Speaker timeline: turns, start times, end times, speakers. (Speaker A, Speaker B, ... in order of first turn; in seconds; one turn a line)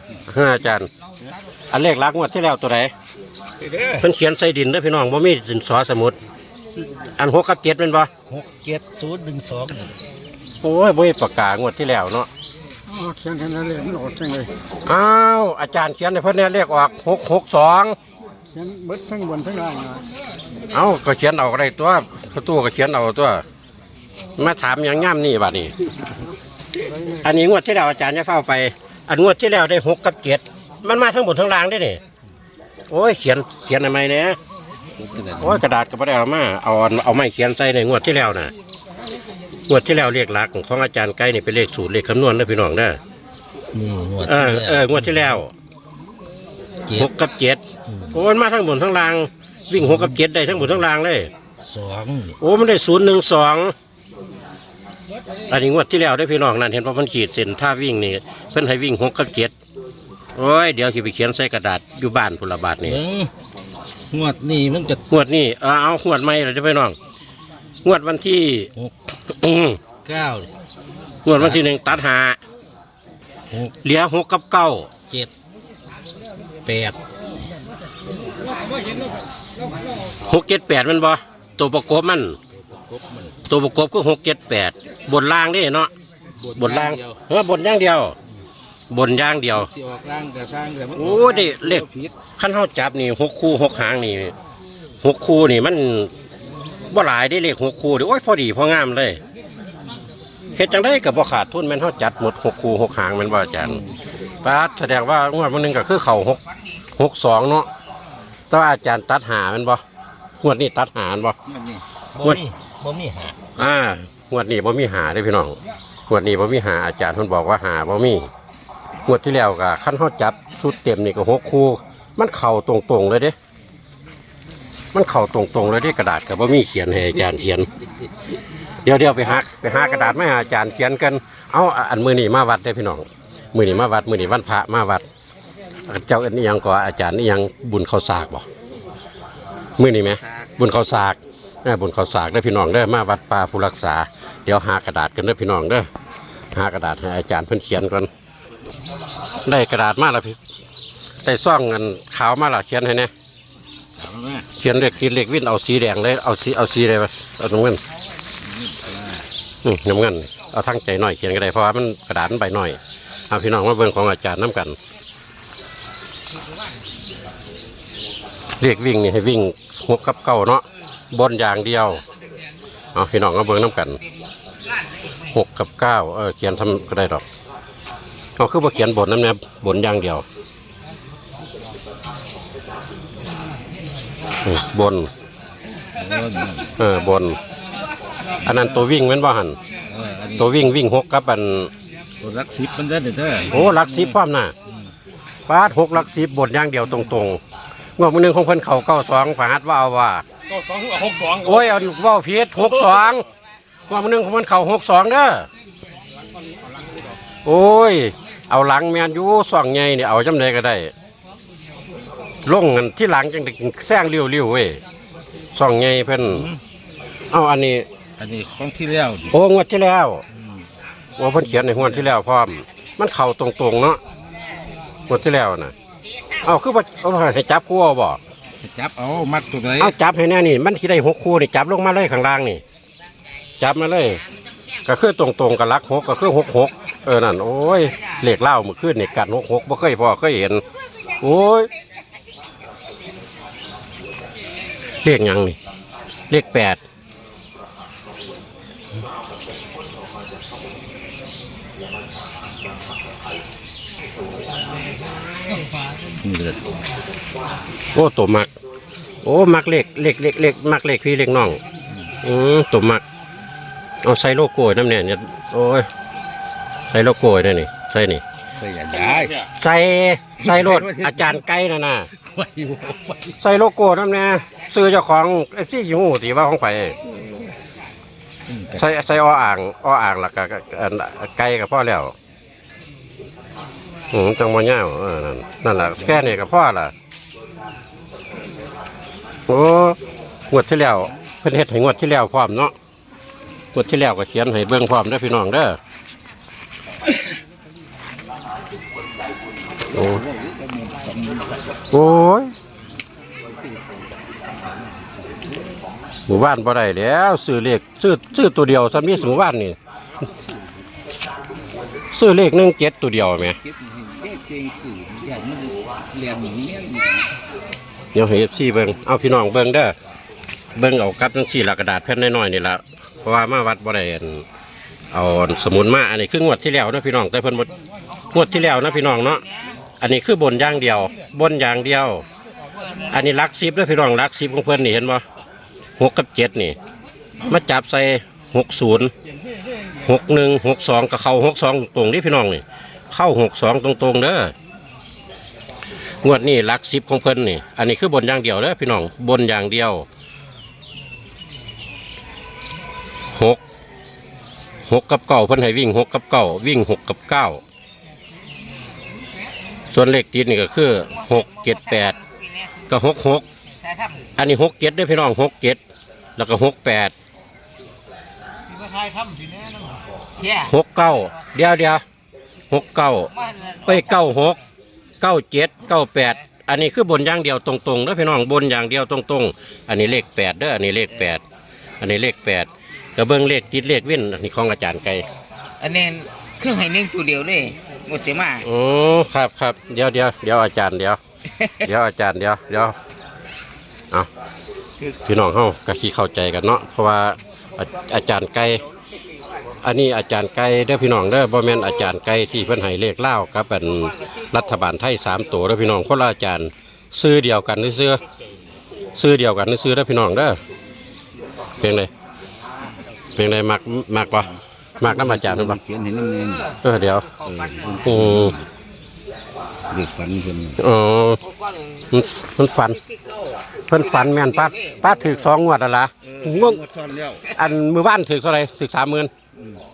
Speaker A: 0.3-0.9
Speaker A: 1.7-2.9
Speaker A: 3.9-6.2
Speaker A: 7.2-8.1
Speaker B: 8.3-9.9
Speaker A: 10.6-12.3
Speaker C: 12.9-14.5
Speaker A: 14.8-18.0
Speaker C: 18.6-20.0
Speaker A: 20.7-23.4
Speaker A: 24.4-25.7
Speaker A: 27.1-32.0
Speaker A: 32.9-34.4
Speaker B: 35.0-35.6
Speaker A: 35.4-38.5
Speaker A: 39.7-43.0
Speaker B: 43.7-45.4
Speaker A: 44.2-45.5
Speaker A: 46.9-51.3
Speaker B: 47.9-48.1
Speaker B: 49.7-50.2
Speaker B: 51.6-52.4
Speaker A: 52.4-53.7
Speaker A: 55.5-59.5
Speaker A: 60.4-63.0
Speaker B: 62.8-63.3
Speaker B: 64.1-65.0
Speaker A: 65.1-67.0
Speaker A: 67.8-68.7
Speaker A: 69.3-69.8
Speaker B: 70.0-70.5
Speaker A: 71.2-72.4
Speaker A: 73.8-74.9
Speaker B: 76.6-77.0
Speaker A: 80.2-82.4
Speaker B: 82.7-83.3
Speaker A: 83.5-85.9
Speaker B: 86.4-87.2
Speaker A: 86.6-88.1
Speaker A: 88.9-89.7
Speaker B: 89.5-92.1
Speaker A: 91.0-91.9
Speaker A: 92.4-94.3
Speaker A: 95.0-96.1
Speaker A: 96.9-99.2
Speaker A: 100.5-103.8
Speaker A: 104.4-106.4
Speaker A: 107.0-107.7
Speaker A: 108.5-109.8
Speaker A: 110.4-111.4
Speaker B: 111.5-113.4
Speaker A: 112.2-112.4
Speaker A: 113.6-115.6
Speaker A: 116.1-118.3
Speaker A: 119.1-123.3
Speaker A: 124.9-127.7
Speaker A: 128.8-135.1
Speaker A: 135.9-138.5
Speaker A: 139.8-145.9
Speaker A: 146.5-148.1
Speaker A: 149.4-150.4
Speaker A: 151.2-153.1
Speaker B: 154.0-154.5
Speaker A: 154.6-157.8
Speaker B: 158.4-159.2
Speaker A: 159.6-162.8
Speaker A: 163.3-164.8
Speaker A: 168.6-172.0
Speaker A: 172.9-174.0
Speaker A: 175.3-177.2
Speaker A: 178.4-180.2
Speaker A: 184.4-185.1
Speaker B: 186.0-186.7
Speaker A: 186.8-187.4
Speaker A: 188.4-189.6
Speaker B: 188.5-188.8
Speaker B: 189.9-190.5
Speaker A: 190.3-191.7
Speaker B: 192.2-194.2
Speaker A: 193.5-194.5
Speaker A: 195.5-197.4
Speaker A: 198.0-200.2
Speaker B: 200.7-201.2
Speaker A: 201.3-203.2
Speaker A: 203.9-205.5
Speaker A: 207.4-210.9
Speaker A: 212.5-214.8
Speaker A: 215.6-216.5
Speaker B: 216.3-216.6
Speaker A: 217.3-217.9
Speaker B: 218.2-219.3
Speaker A: 219.3-220.2
Speaker B: 220.3-220.6
Speaker A: 221.2-224.0
Speaker B: 221.6-222.1
Speaker A: 225.1-225.7
Speaker A: 226.4-228.2
Speaker B: 228.6-229.9
Speaker A: 229.8-232.6
Speaker A: 233.6-234.2
Speaker A: 234.8-240.6
Speaker A: 241.2-241.7
Speaker A: 245.0-245.6
Speaker A: 246.3-246.8
Speaker B: 256.2-256.6
Speaker A: 257.9-258.5
Speaker A: 259.2-261.6
Speaker A: 262.2-263.0
Speaker A: 264.0-265.9
Speaker A: 266.9-268.2
Speaker B: 268.6-269.5
Speaker A: 269.5-272.1
Speaker B: 270.4-271.4
Speaker B: 272.2-273.3
Speaker A: 273.4-277.0
Speaker B: 278.5-278.9
Speaker A: 278.7-282.1
Speaker A: 284.1-286.9
Speaker A: 289.5-290.0
Speaker A: 290.5-292.7
Speaker A: 293.7-295.8
Speaker A: 299.9-300.2
Speaker B: 299.9-301.6
Speaker A: 301.9-302.5
Speaker B: 303.6-303.9
Speaker A: 306.3-309.8
Speaker A: 312.1-313.6
Speaker B: 313.5-317.3
Speaker A: 318.1-319.9
Speaker A: 320.8-324.4
Speaker A: 325.1-327.7
Speaker A: 328.3-329.4
Speaker D: 328.4-329.8
Speaker A: 330.0-332.2
Speaker D: 332.8-333.1
Speaker A: 333.1-335.2
Speaker A: 336.0-336.8
Speaker A: 337.5-339.1
Speaker A: 340.0-344.5
Speaker A: 346.2-350.1
Speaker A: 353.3-353.6
Speaker A: 354.9-357.6
Speaker A: 359.9-362.1
Speaker D: 361.1-362.8
Speaker A: 362.9-363.4
Speaker D: 363.8-364.3
Speaker A: 364.4-365.8
Speaker A: 366.4-367.1
Speaker D: 368.7-370.7
Speaker A: 370.7-372.0
Speaker A: 372.7-373.3
Speaker D: 373.3-374.4
Speaker A: 373.9-374.6
Speaker A: 375.2-381.4
Speaker A: 382.0-385.2
Speaker D: 385.8-388.6
Speaker A: 388.6-391.2
Speaker A: 391.8-392.9
Speaker A: 395.2-398.8
Speaker A: 399.8-408.2
Speaker D: 403.8-404.6
Speaker A: 409.2-410.6
Speaker A: 411.8-412.1
Speaker A: 413.4-414.5
Speaker A: 415.0-415.8
Speaker B: 415.0-416.7
Speaker D: 416.5-418.2
Speaker A: 416.8-417.2
Speaker B: 417.5-418.6
Speaker A: 418.0-418.5
Speaker B: 419.9-420.8
Speaker A: 420.8-421.4
Speaker D: 421.4-422.3
Speaker A: 422.1-423.0
Speaker D: 422.8-425.5
Speaker A: 423.9-426.8
Speaker D: 426.2-426.7
Speaker B: 426.6-427.4
Speaker A: 427.5-429.3